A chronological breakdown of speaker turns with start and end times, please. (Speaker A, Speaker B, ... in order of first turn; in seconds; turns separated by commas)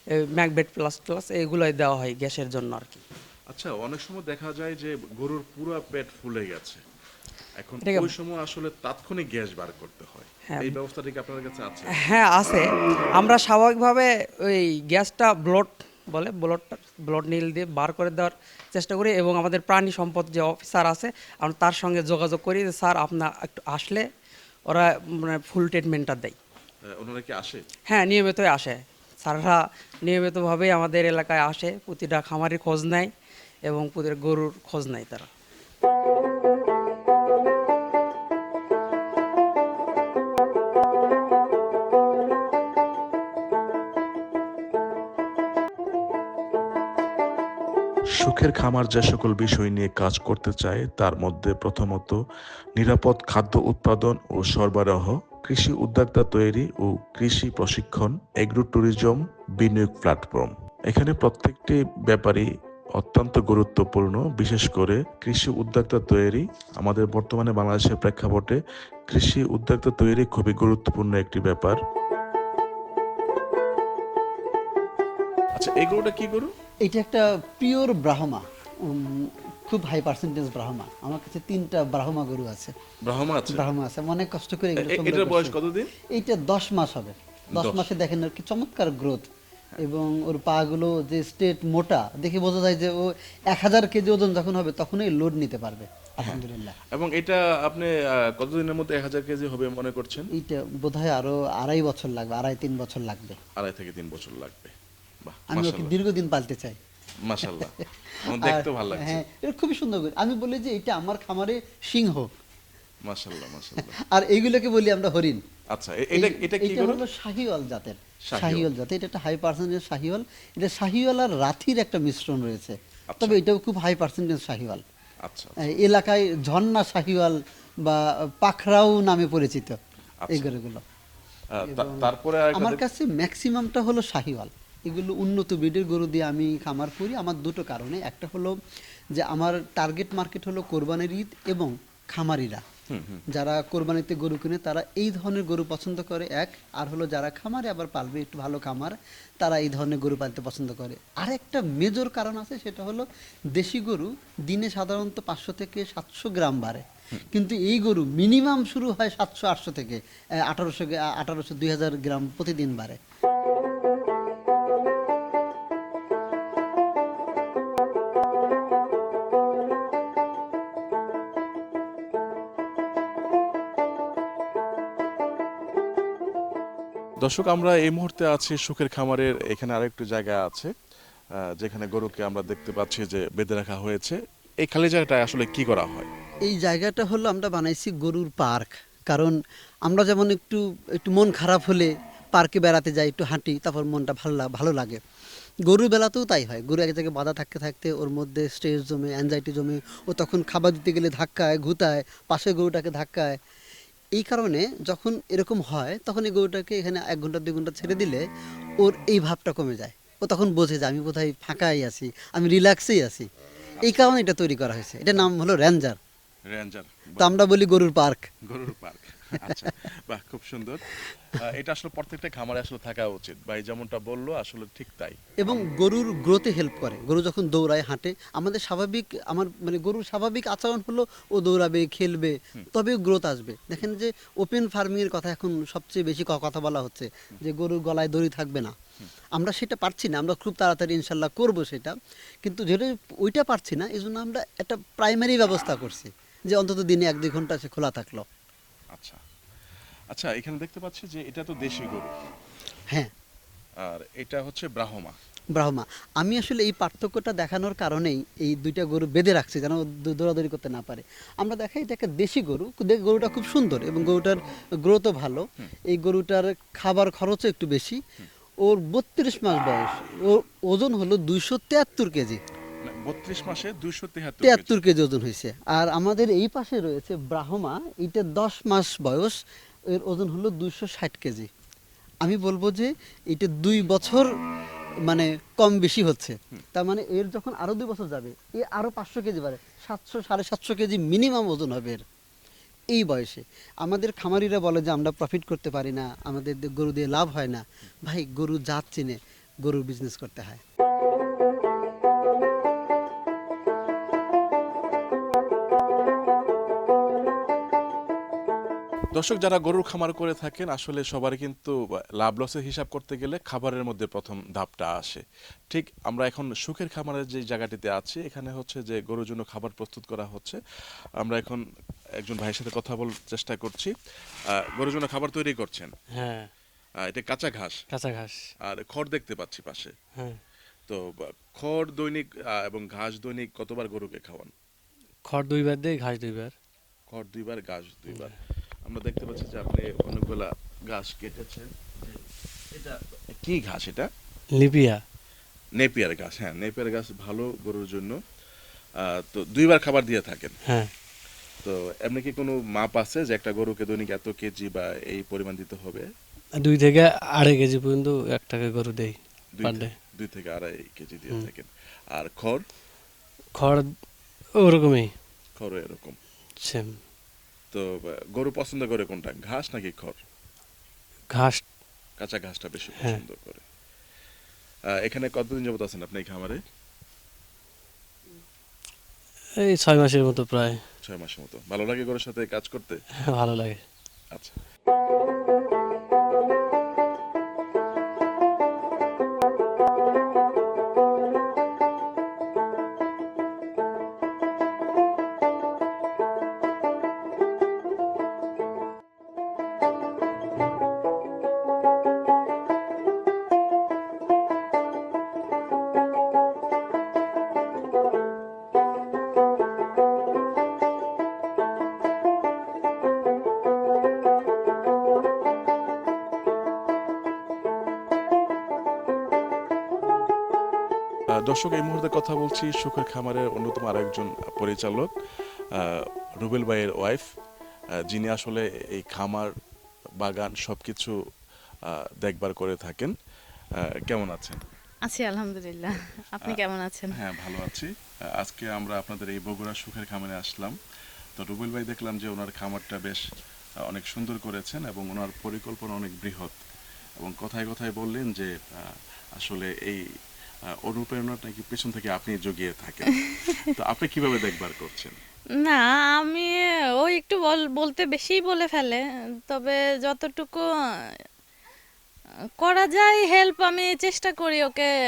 Speaker A: 0.3-3.0, Speaker B: 3.5-6.8, Speaker B: 7.6-12.1, Speaker A: 7.8-8.1, Speaker A: 10.5-10.8, Speaker A: 11.9-24.1, Speaker A: 24.7-26.4, Speaker B: 26.9-27.6, Speaker A: 27.9-33.1, Speaker A: 33.7-35.3, Speaker B: 48.2-52.2, Speaker B: 52.8-68.6, Speaker B: 69.1-71.8, Speaker B: 75.5-76.5, Speaker C: 76.8-82.7, Speaker B: 83.1-83.7, Speaker C: 83.5-85.6, Speaker B: 84.8-85.9, Speaker C: 86.1-89.2, Speaker B: 87.5-88.0, Speaker C: 89.8-96.8, Speaker B: 96.2-100.3, Speaker C: 100.3-103.4, Speaker B: 103.6-105.9, Speaker C: 105.5-106.8, Speaker B: 107.3-109.2, Speaker C: 107.5-112.3, Speaker B: 113.1-114.0, Speaker C: 113.8-115.4, Speaker B: 115.7-117.0, Speaker C: 116.1-124.8, Speaker B: 118.3-118.7, Speaker B: 123.1-123.4, Speaker B: 125.3-125.6, Speaker C: 125.6-129.8, Speaker B: 130.2-130.5, Speaker C: 130.3-130.8, Speaker B: 131.6-132.8, Speaker C: 131.7-138.6, Speaker C: 139.2-142.6, Speaker B: 142.9-143.2, Speaker C: 143.3-163.0, Speaker B: 177.2-180.7, Speaker B: 181.6-186.1, Speaker C: 186.5-195.0, Speaker C: 195.7-203.4, Speaker C: 204.2-208.2, Speaker C: 208.8-213.3, Speaker C: 213.8-216.0, Speaker B: 213.8-214.1, Speaker B: 216.5-217.4, Speaker C: 217.2-218.3, Speaker B: 218.5-225.7, Speaker C: 225.4-238.8, Speaker C: 239.4-248.2, Speaker B: 248.9-249.2, Speaker B: 250.1-252.1, Speaker B: 253.8-255.2, Speaker C: 255.6-268.0, Speaker C: 268.6-272.4, Speaker B: 272.9-274.8, Speaker C: 274.4-279.4, Speaker C: 279.9-281.5, Speaker C: 282.2-284.3, Speaker C: 285.1-292.0, Speaker C: 292.9-300.6, Speaker B: 309.1-320.6, Speaker B: 321.2-321.6, Speaker B: 322.2-323.9, Speaker B: 324.6-325.9, Speaker D: 326.1-326.5, Speaker B: 327.1-327.8, Speaker D: 327.9-328.4, Speaker B: 328.7-329.9, Speaker B: 330.9-334.5, Speaker D: 335.3-336.6, Speaker B: 337.1-338.4, Speaker B: 338.9-342.1, Speaker B: 342.8-344.1, Speaker D: 344.6-345.0, Speaker B: 345.8-348.2, Speaker B: 349.1-350.6, Speaker D: 350.7-350.9, Speaker B: 351.6-356.1, Speaker D: 356.6-359.9, Speaker B: 359.6-362.6, Speaker D: 363.6-364.0, Speaker D: 364.6-365.1, Speaker B: 365.6-366.2, Speaker D: 366.6-367.0, Speaker B: 367.7-370.2, Speaker D: 371.3-371.6, Speaker B: 372.2-373.6, Speaker D: 372.9-373.2, Speaker B: 375.1-376.6, Speaker D: 379.6-380.8, Speaker B: 381.0-383.0, Speaker D: 383.2-383.8, Speaker B: 384.3-384.6, Speaker B: 421.4-425.1, Speaker B: 425.8-427.3, Speaker B: 428.1-429.5, Speaker B: 430.2-431.1, Speaker B: 431.9-433.1, Speaker B: 434.0-434.7, Speaker E: 435.1-437.1, Speaker B: 437.1-440.8, Speaker B: 441.4-443.2, Speaker B: 443.9-446.6, Speaker B: 447.2-450.0, Speaker B: 450.9-455.2, Speaker E: 455.6-460.6, Speaker E: 462.6-464.9